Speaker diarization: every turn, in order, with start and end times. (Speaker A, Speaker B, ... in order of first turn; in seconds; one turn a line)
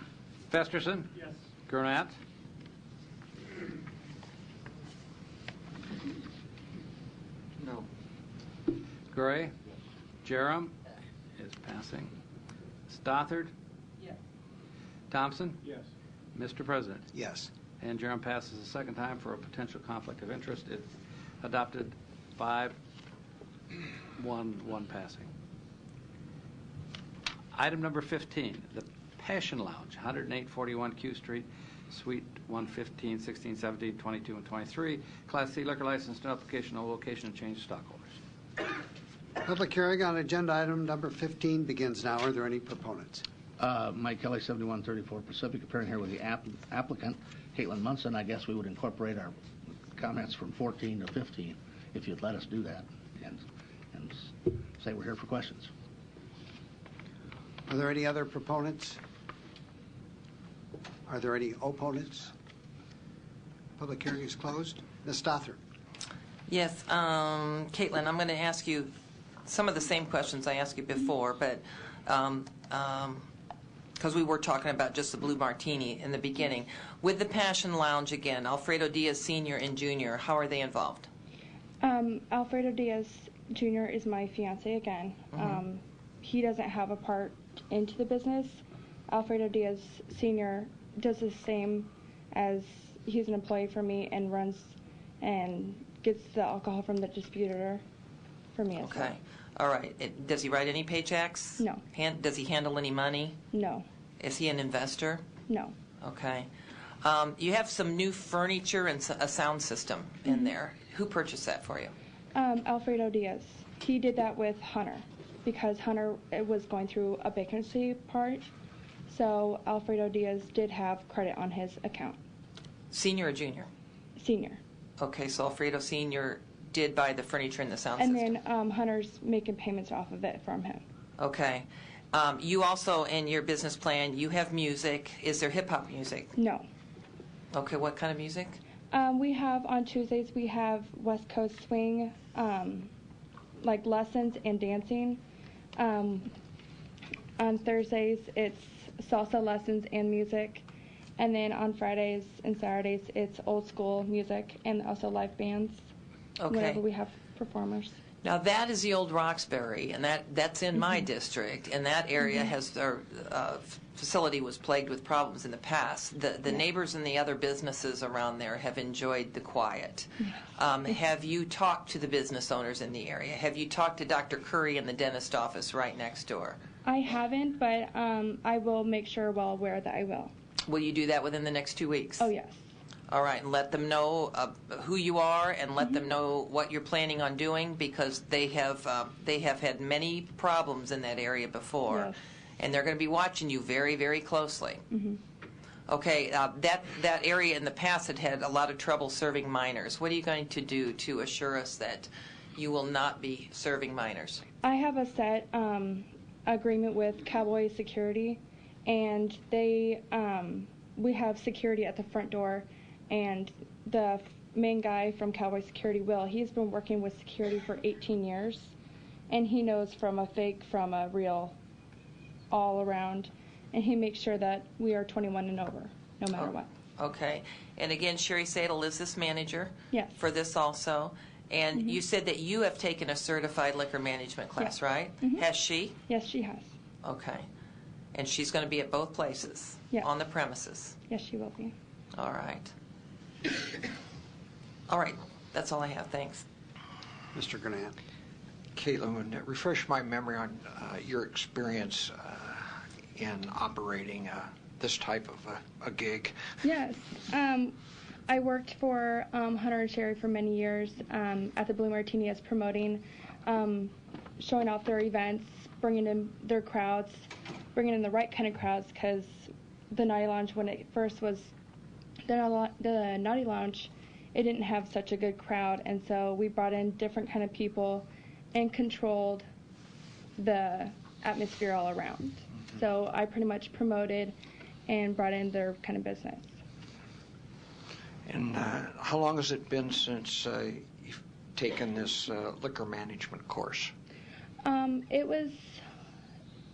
Speaker A: 0.5-2.1
Speaker B: 7.6-7.9
Speaker A: 9.1-9.5
Speaker A: 10.2-10.7
Speaker A: 11.4-12.1
Speaker A: 12.9-13.5
Speaker A: 15.1-15.6
Speaker A: 16.4-17.1
Speaker C: 17.1-17.5
Speaker A: 17.8-20.9
Speaker A: 21.4-22.8
Speaker A: 24.2-25.3
Speaker A: 27.5-38.1
Speaker C: 39.4-43.2
Speaker D: 43.6-49.3
Speaker D: 49.9-55.7
Speaker C: 57.7-59.0
Speaker C: 61.1-62.3
Speaker C: 63.8-65.6
Speaker E: 66.5-68.9
Speaker E: 69.5-73.3
Speaker E: 74.0-81.1
Speaker F: 81.8-97.8
Speaker E: 85.3-85.6
Speaker F: 98.5-99.2
Speaker E: 98.8-103.4
Speaker F: 103.5-103.8
Speaker E: 104.2-105.2
Speaker F: 105.5-105.8
Speaker E: 106.0-106.5
Speaker E: 107.0-111.9
Speaker F: 112.3-118.5
Speaker F: 119.1-122.2
Speaker E: 122.9-123.7
Speaker F: 124.2-124.6
Speaker E: 125.0-128.3
Speaker F: 128.0-130.8
Speaker E: 131.2-136.3
Speaker F: 136.4-136.7
Speaker E: 137.5-138.6
Speaker F: 138.9-142.9
Speaker F: 143.6-145.2
Speaker F: 145.8-146.3
Speaker F: 147.4-150.7
Speaker F: 151.2-155.9
Speaker E: 156.4-156.8
Speaker F: 156.5-158.0
Speaker E: 158.2-176.6
Speaker F: 176.8-180.3
Speaker E: 180.7-182.3
Speaker F: 182.2-182.6
Speaker E: 183.1-194.8
Speaker F: 191.9-192.2
Speaker F: 194.9-195.2
Speaker E: 195.9-204.4
Speaker F: 204.6-218.7
Speaker F: 219.3-221.6
Speaker F: 222.5-226.7
Speaker E: 226.3-236.0
Speaker F: 234.6-235.4
Speaker F: 236.1-236.7
Speaker E: 237.0-237.5
Speaker E: 238.1-241.0
Speaker F: 241.1-241.7
Speaker E: 242.1-242.7
Speaker E: 244.9-246.4
Speaker C: 247.3-248.0
Speaker B: 248.8-256.6
Speaker F: 256.6-257.8
Speaker F: 258.3-271.5
Speaker F: 272.3-279.4
Speaker F: 280.4-284.4
Speaker F: 284.9-286.5
Speaker B: 288.3-293.9
Speaker F: 294.6-295.8